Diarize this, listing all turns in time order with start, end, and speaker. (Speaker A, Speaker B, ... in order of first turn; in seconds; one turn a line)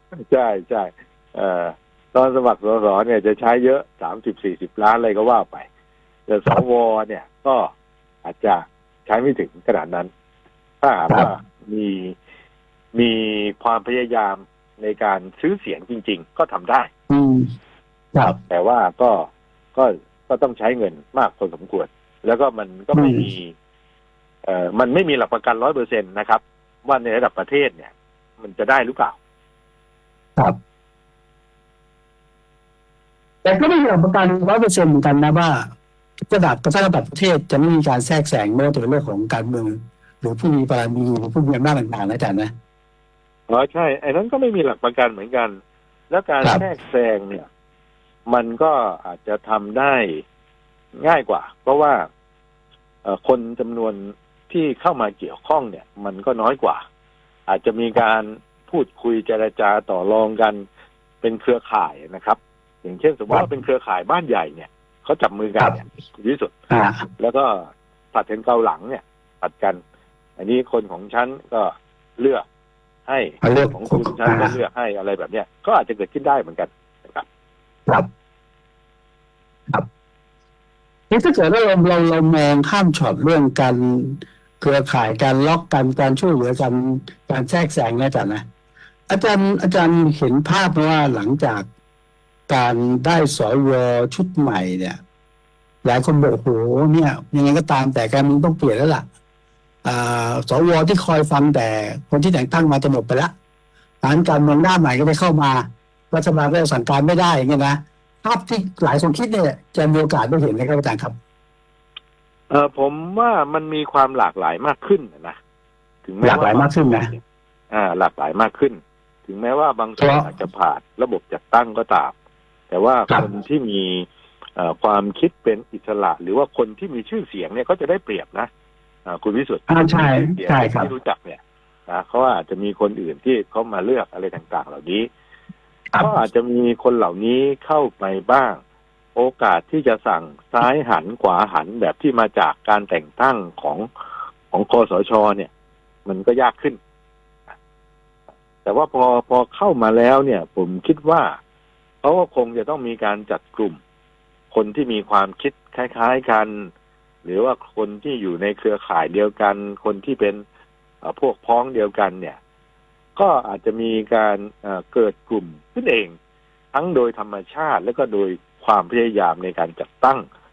Speaker A: 0.3-5.7
Speaker A: 6.3-7.7
Speaker A: 8.2-10.1
Speaker A: 10.8-12.2
Speaker A: 12.9-16.9
Speaker B: 17.1-17.5
Speaker A: 18.5-23.5
Speaker B: 22.9-23.2
Speaker A: 24.4-29.2
Speaker B: 33.4-35.6
Speaker B: 36.3-42.5
Speaker A: 43.5-45.6
Speaker A: 46.1-47.5
Speaker A: 48.3-50.2
Speaker A: 51.0-52.1
Speaker A: 53.0-56.8
Speaker A: 57.5-60.6
Speaker A: 61.2-66.5
Speaker B: 66.7-67.1
Speaker A: 67.2-69.8
Speaker A: 70.4-72.5
Speaker A: 73.1-77.3
Speaker B: 73.4-74.5
Speaker B: 81.1-88.4
Speaker B: 89.1-91.7
Speaker B: 92.5-95.0
Speaker B: 95.8-99.0
Speaker B: 99.8-103.3
Speaker B: 104.0-111.1
Speaker A: 112.5-115.4
Speaker A: 116.0-117.2
Speaker B: 116.2-117.1
Speaker A: 117.7-122.1
Speaker B: 120.0-120.3
Speaker A: 122.7-128.5
Speaker A: 129.1-135.1
Speaker B: 129.7-130.9
Speaker A: 136.0-138.6
Speaker A: 139.2-143.9
Speaker A: 144.5-145.5
Speaker A: 146.1-146.8
Speaker A: 148.7-151.3
Speaker A: 152.0-153.8
Speaker A: 154.5-156.7
Speaker A: 157.2-160.4
Speaker A: 161.0-162.4
Speaker A: 163.2-166.1
Speaker A: 166.7-170.2